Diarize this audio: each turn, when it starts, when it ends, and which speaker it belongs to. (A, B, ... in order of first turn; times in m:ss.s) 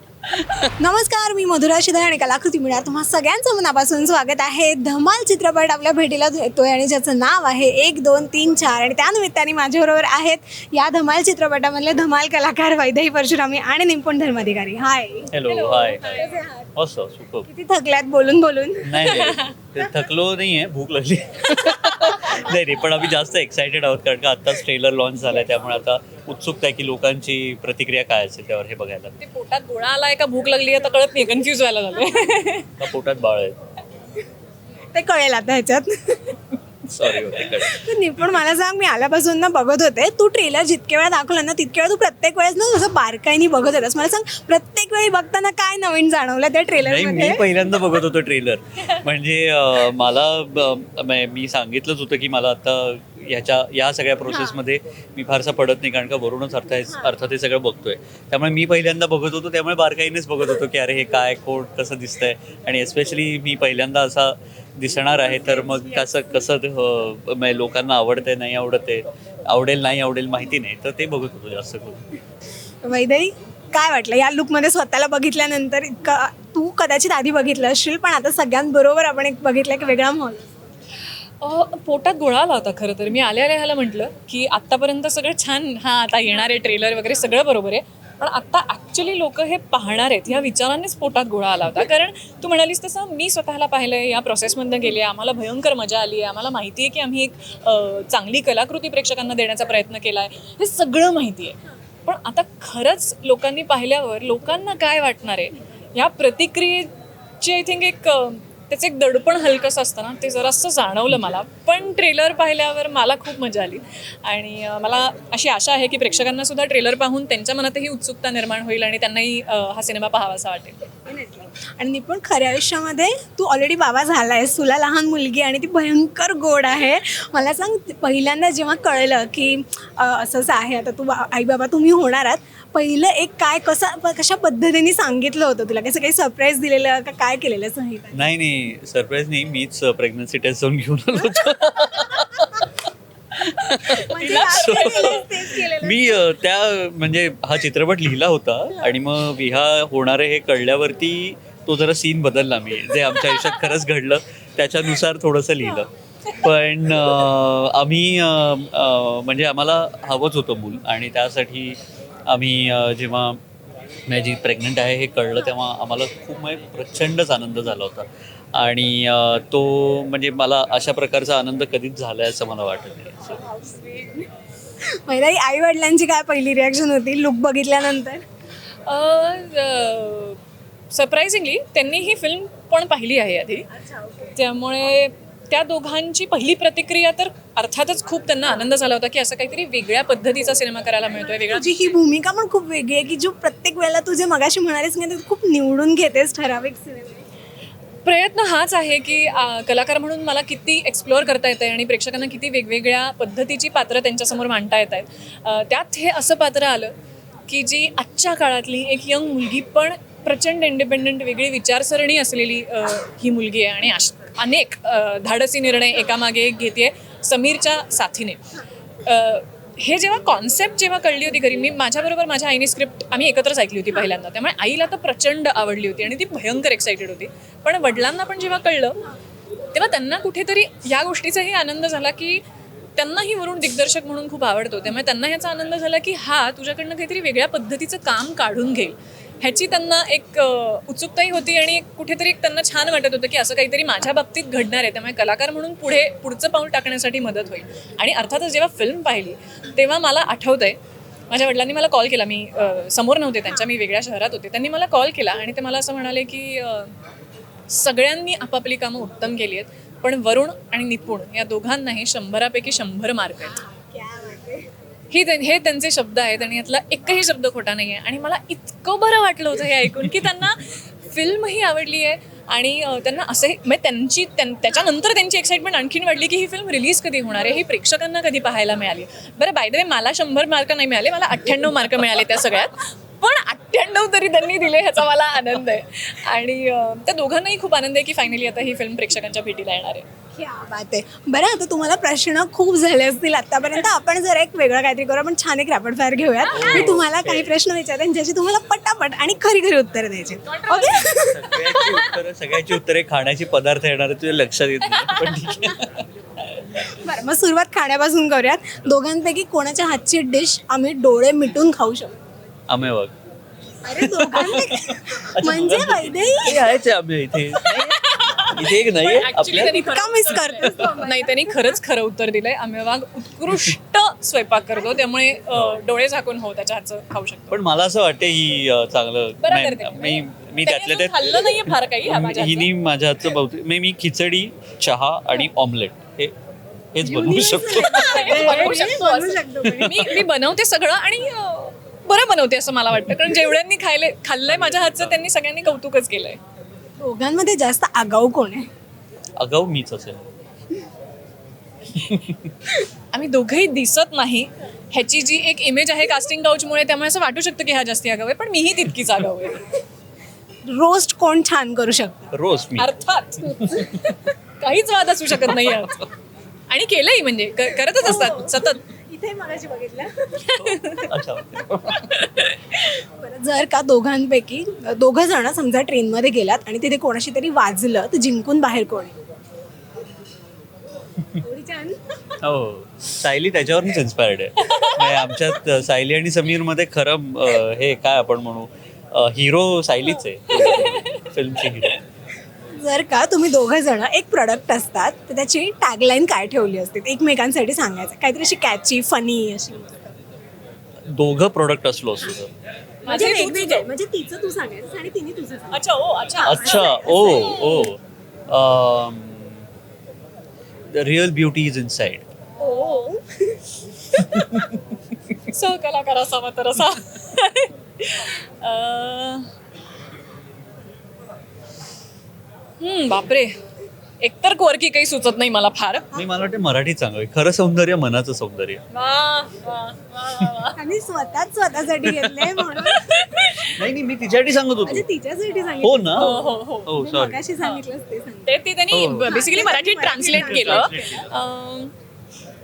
0:00.3-0:00.6 A
0:00.7-0:15.3 B
0:15.3-0:16.1 A
0:15.4-0:16.4 C
0:16.0-0:16.7 B
0:16.7-0:17.5 A
0:17.4-0:19.3 B
0:18.8-0:29.1 A
0:19.2-0:19.5 C
0:29.2-0:32.8 C
0:32.8-0:33.6 A
0:34.9-0:36.4 B
0:36.9-0:37.9 A
0:37.4-0:47.4 B
0:46.8-1:12.0 A
0:54.3-0:54.6 B
1:12.8-1:20.5 B
1:21.4-2:00.8 C
2:01.0-2:18.3 B
2:18.1-2:43.4 A
2:23.7-2:25.2 C
2:23.8-2:26.3 B
2:33.1-2:33.6 C
2:44.1-2:53.4 A
2:53.4-2:54.3 B
2:54.8-2:58.2 B
2:58.9-3:00.4 C
3:00.9-3:03.6 C
3:03.7-3:04.4 B
3:04.4-3:11.9 C
3:11.1-3:17.3 B
3:18.0-3:26.9 C
3:27.5-3:38.5 C
3:39.0-3:49.0 C
3:49.7-3:52.4 C
3:53.0-4:10.8 C
4:11.3-4:16.9 C
4:17.7-4:23.6 C
4:23.4-4:24.7 B
4:25.1-4:50.0 C
4:50.3-5:01.5 B
4:56.4-4:57.0 C
4:56.5-4:57.5 A
5:00.4-5:02.1 C
5:01.3-5:06.1 A
5:04.8-5:05.8 C
5:06.8-5:12.2 B
5:12.7-5:13.1 A
5:13.8-5:16.7 B
5:14.0-5:19.8 A
5:17.6-5:27.6 C
5:19.6-5:21.8 B
5:20.6-5:20.9 A
5:25.5-5:25.8 A
5:27.5-5:36.3 A
5:29.4-5:32.7 C
5:36.9-5:38.9 A
5:37.0-5:40.1 B
5:37.7-5:46.4 C
5:39.6-5:40.2 A
5:44.5-5:45.2 A
5:47.0-5:48.7 B
5:49.4-5:50.2 A
5:51.9-5:52.5 A
5:53.1-5:59.7 C
6:00.6-6:02.3 B
6:02.3-6:02.9 A
6:02.8-6:06.0 C
6:03.4-6:04.0 A
6:05.4-6:05.9 A
6:06.7-6:08.8 C
6:08.0-6:10.8 B
6:10.4-6:11.1 C
6:10.6-6:12.1 A
6:11.9-6:12.8 C
6:12.7-6:19.1 B
6:21.4-6:22.0 B
6:22.4-6:32.0 A
6:24.6-6:25.2 C
6:30.5-6:32.0 C
6:32.8-6:40.1 B
6:41.1-6:42.5 A
6:43.0-6:45.8 B
6:43.0-6:43.9 C
6:45.7-6:47.9 C
6:46.4-6:47.7 B
6:46.4-6:49.6 A
6:50.9-6:52.2 A
6:52.6-6:53.6 B
6:54.2-6:54.8 A
6:55.5-6:59.5 C
7:02.8-7:03.6 C
7:04.2-7:06.1 C
7:06.1-7:08.8 A
7:08.9-7:10.8 C
7:10.8-7:13.5 B
7:12.0-7:12.7 A
7:12.8-7:13.8 C
7:13.7-7:15.0 A
7:14.8-7:18.5 B
7:15.8-7:16.3 A
7:16.2-7:16.9 C
7:16.8-7:17.4 A
7:18.4-7:21.9 C
7:18.9-7:19.3 A
7:19.2-7:21.2 B
7:20.2-7:21.3 A